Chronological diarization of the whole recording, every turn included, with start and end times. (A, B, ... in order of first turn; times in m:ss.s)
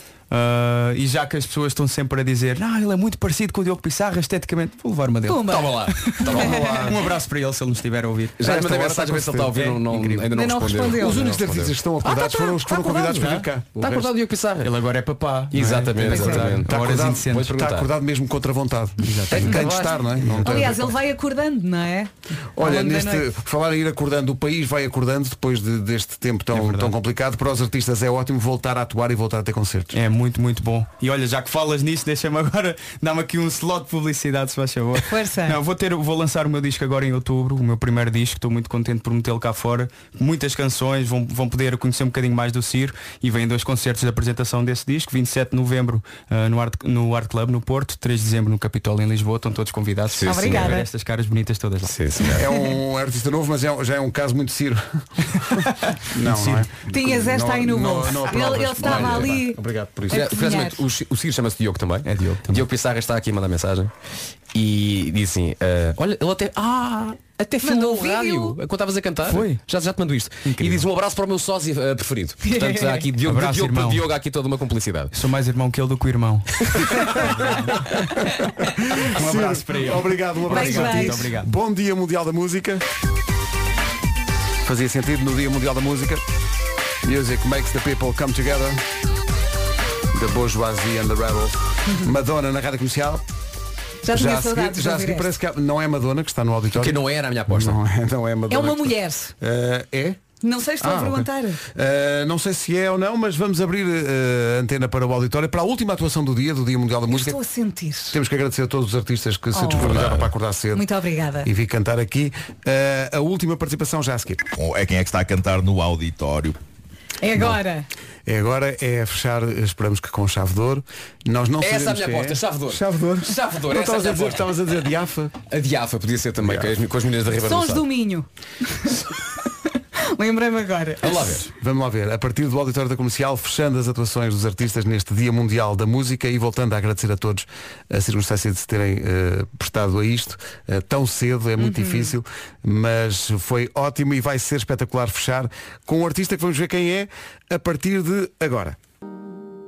0:00.3-0:05.9 A
0:05.3-0:06.8 B
0:05.5-0:06.8 C
0:06.3-0:07.0 D
0:06.9-0:10.3 A
0:08.4-0:11.7 C
0:08.4-0:09.5 D
0:10.3-0:11.3 B
0:11.0-0:14.1 D
0:12.0-0:13.4 B
0:13.8-0:14.7 C
0:14.7-0:21.0 D
0:14.8-0:17.5 A
0:15.5-0:17.9 C
0:16.0-0:16.4 B
0:19.0-0:19.8 A
0:20.4-0:23.3 B
0:22.6-0:30.0 D
0:26.5-0:26.9 A
0:29.9-0:52.0 A
0:35.1-0:35.6 B
0:50.1-0:50.8 C
0:50.3-0:50.9 B
0:51.8-0:52.5 C
0:52.4-1:00.2 D
0:56.2-0:56.7 A
0:56.9-1:00.8 B
0:58.8-0:59.2 C
1:00.1-1:03.9 C
1:02.0-1:02.6 A
1:04.5-1:15.1 C
1:07.6-1:08.6 B
1:09.2-1:09.6 A
1:12.4-1:13.1 B
1:13.2-1:14.0 A
1:15.1-1:17.6 A
1:18.6-1:22.8 D
1:19.1-1:21.5 A
1:20.5-1:21.3 B
1:24.6-1:26.2 D
1:27.0-1:28.8 D
1:30.1-1:33.2 D
1:34.0-1:35.3 B
1:34.1-1:40.2 D
1:36.7-1:37.8 C
1:38.5-1:39.3 B
1:40.4-1:41.6 B
1:40.8-1:47.4 D
1:47.1-1:48.2 B
1:48.1-1:50.9 D
1:49.5-1:50.0 B
1:49.8-1:50.2 E
1:50.7-1:51.5 B
1:51.4-1:54.4 D
1:54.6-1:56.6 E
1:57.2-1:57.9 B
1:58.3-2:05.3 D
2:01.6-2:04.7 C
2:05.5-2:07.9 C
2:06.4-2:06.7 D
2:07.4-2:08.3 B
2:10.1-2:11.3 B
2:11.0-2:11.5 C
2:11.4-2:28.8 D
2:21.6-2:22.1 B